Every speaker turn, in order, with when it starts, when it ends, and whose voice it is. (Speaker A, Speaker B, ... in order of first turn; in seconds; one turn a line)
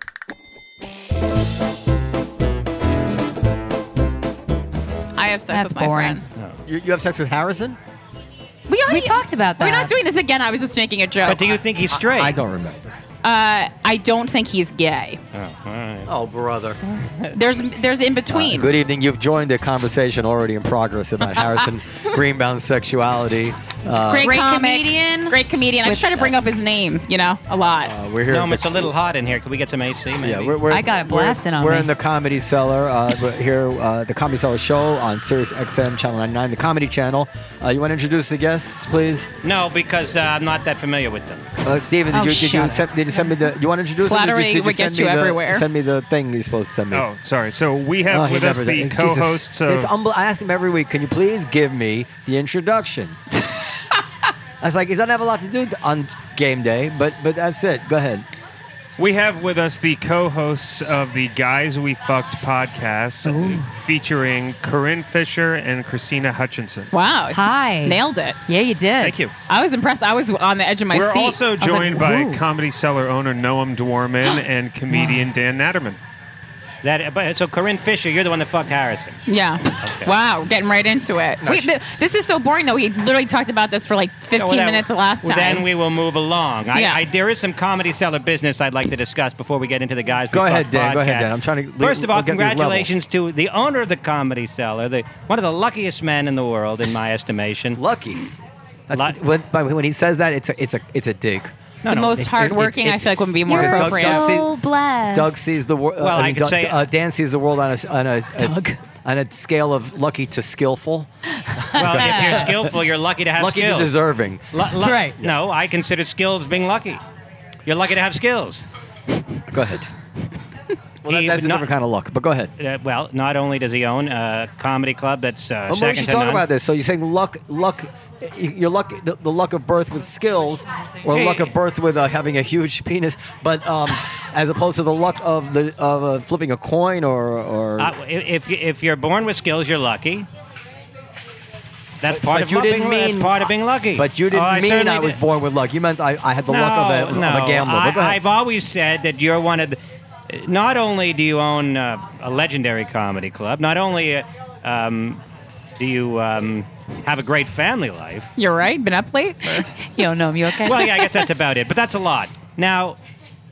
Speaker A: 5.2-6.2
Speaker B: 5.5-6.2
Speaker C: 6.7-7.8
Speaker A: 8.7-11.6
Speaker B: 8.9-9.9
Speaker D: 11.2-12.4
Speaker C: 11.9-12.9
Speaker A: 13.2-15.2
Speaker D: 15.3-16.1
Speaker C: 16.1-16.8
Speaker D: 16.9-17.3
Speaker A: 17.3-18.7
Speaker C: 18.3-24.3
Speaker A: 24.1-27.9
Speaker B: 24.2-26.2
Speaker C: 27.8-28.9
Speaker D: 28.3-30.6
Speaker C: 30.2-39.3
Speaker B: 30.7-31.9
Speaker D: 39.4-41.5
Speaker C: 41.6-47.0
Speaker B: 42.1-42.9
Speaker A: 44.0-45.7
Speaker E: 46.9-49.9
Speaker C: 48.1-53.3
Speaker C: 54.6-58.3
Speaker E: 59.0-66.9
Speaker B: 63.2-63.7
Speaker A: 66.9-68.4
Speaker B: 67.3-69.2
Speaker E: 69.0-69.3
Speaker A: 69.5-71.4
Speaker E: 70.9-76.0
Speaker B: 71.6-72.4
Speaker B: 74.9-75.2
Speaker D: 76.8-79.2
Speaker A: 79.3-85.7
Speaker D: 79.8-80.1
Speaker C: 81.4-81.7
Speaker D: 84.4-97.8
Speaker A: 86.7-87.0
Speaker C: 90.3-93.0
Speaker C: 97.7-98.2
Speaker C: 98.9-101.5
Speaker D: 101.8-102.2
Speaker A: 101.9-104.4
Speaker C: 102.1-104.5
Speaker B: 103.5-105.4
Speaker C: 105.1-112.7
Speaker D: 106.0-106.8
Speaker B: 108.4-108.8
Speaker B: 111.5-112.5
Speaker D: 111.8-113.9
Speaker C: 113.4-115.3
Speaker D: 114.5-117.0
Speaker B: 114.8-115.2
Speaker D: 117.7-118.7
Speaker C: 119.5-119.9
Speaker C: 121.0-122.5
Speaker D: 121.1-121.7
Speaker D: 122.6-126.4
Speaker C: 125.7-137.9
Speaker B: 130.7-131.0
Speaker D: 131.1-131.5
Speaker D: 137.8-140.3
Speaker D: 142.0-145.2
Speaker C: 142.1-148.2
Speaker D: 146.5-149.8
Speaker D: 150.3-155.2
Speaker D: 155.8-158.3
Speaker A: 158.4-159.7
Speaker B: 159.9-160.8
Speaker D: 160.6-163.0